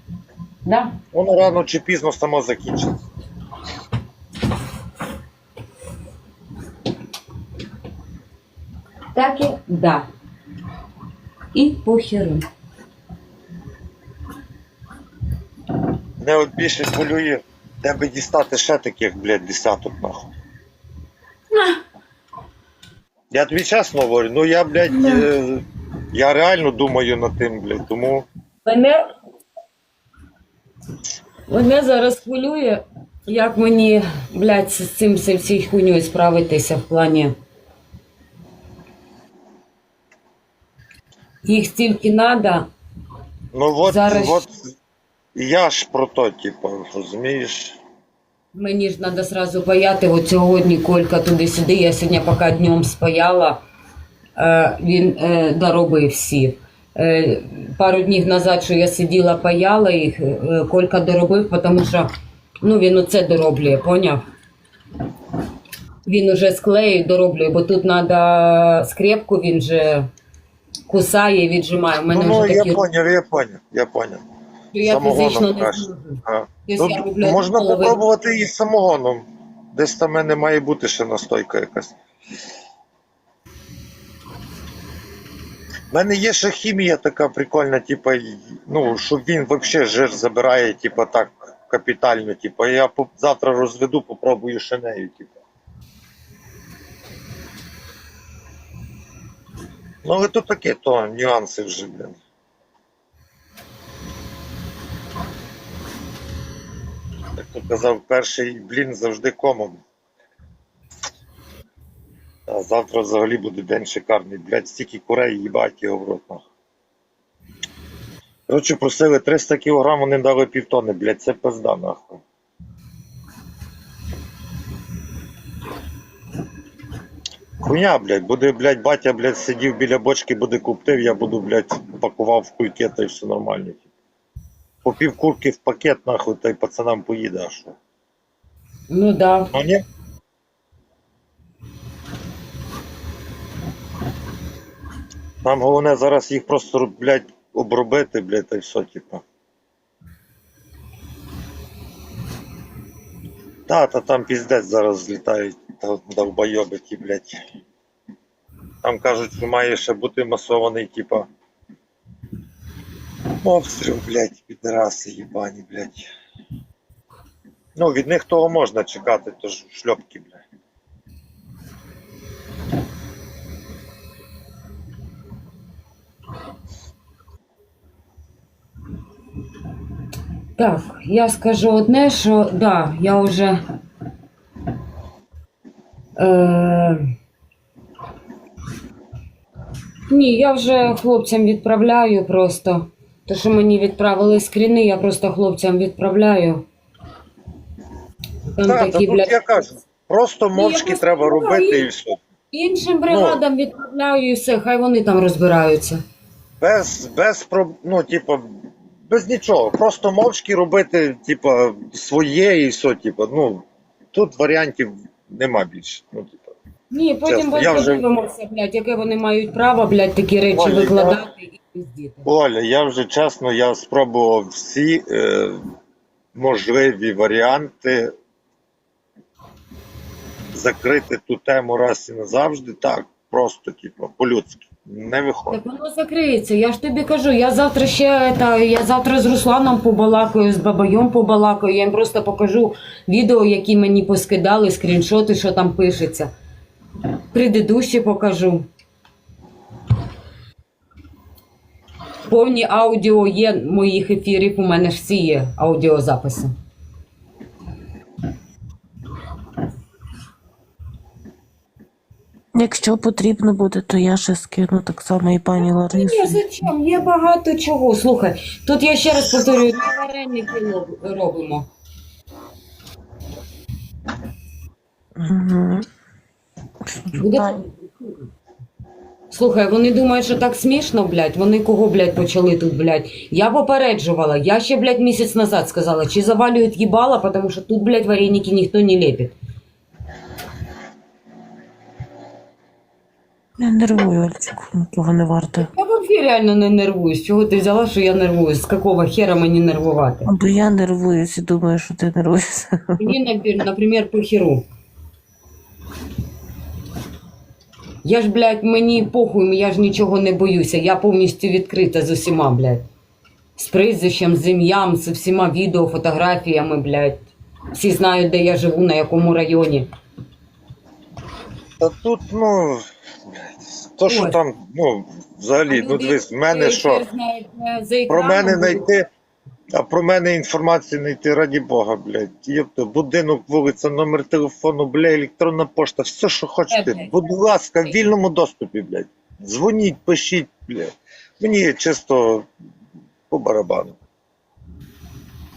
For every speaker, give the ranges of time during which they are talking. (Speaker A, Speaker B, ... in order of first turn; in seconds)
Speaker A: 0.7-0.9, 9.1-10.1, 11.5-12.4, 24.9-25.2, 28.6-29.0, 31.5-37.3, 41.4-42.7, 43.8-44.4, 48.5-53.6, 54.4-62.1, 62.6-64.2, 66.0-70.1, 70.9-72.8, 74.7-78.0, 138.9-139.5, 180.6-183.6, 186.2-187.0, 190.1-196.6, 198.5-199.3, 200.5-201.9, 202.5-206.0, 216.9-222.2, 235.5-246.3, 247.3-248.7, 252.3-256.5, 265.6-271.7, 277.1-278.3, 279.3-289.3, 295.6-300.3, 303.0-304.6, 308.0-312.9, 313.6-319.9, 324.1-324.4, 325.7-328.8, 336.7-337.1
Speaker B: 1.1-3.0, 16.2-20.3, 23.3-28.2, 43.5-44.6, 45.4-47.8, 72.1-74.2, 74.8-82.0, 85.9-95.3, 100.0-102.2, 107.4-109.8, 112.5-116.4, 118.5-122.2, 127.6-133.8, 134.8-137.8, 139.5-139.8, 145.4-149.2, 153.7-157.3, 158.8-161.3, 163.4-166.1, 167.7-170.4, 198.6-202.2, 203.1-203.4, 206.6-216.6, 217.2-218.0, 220.5-221.2, 222.2-225.6, 226.3-228.1, 230.5-235.6, 321.8-322.8, 323.6-327.0, 328.1-329.1, 329.7-342.5, 343.3-344.0
Speaker C: 262.5-266.4, 275.2-275.9, 276.9-277.6, 293.6-295.7, 300.2-303.1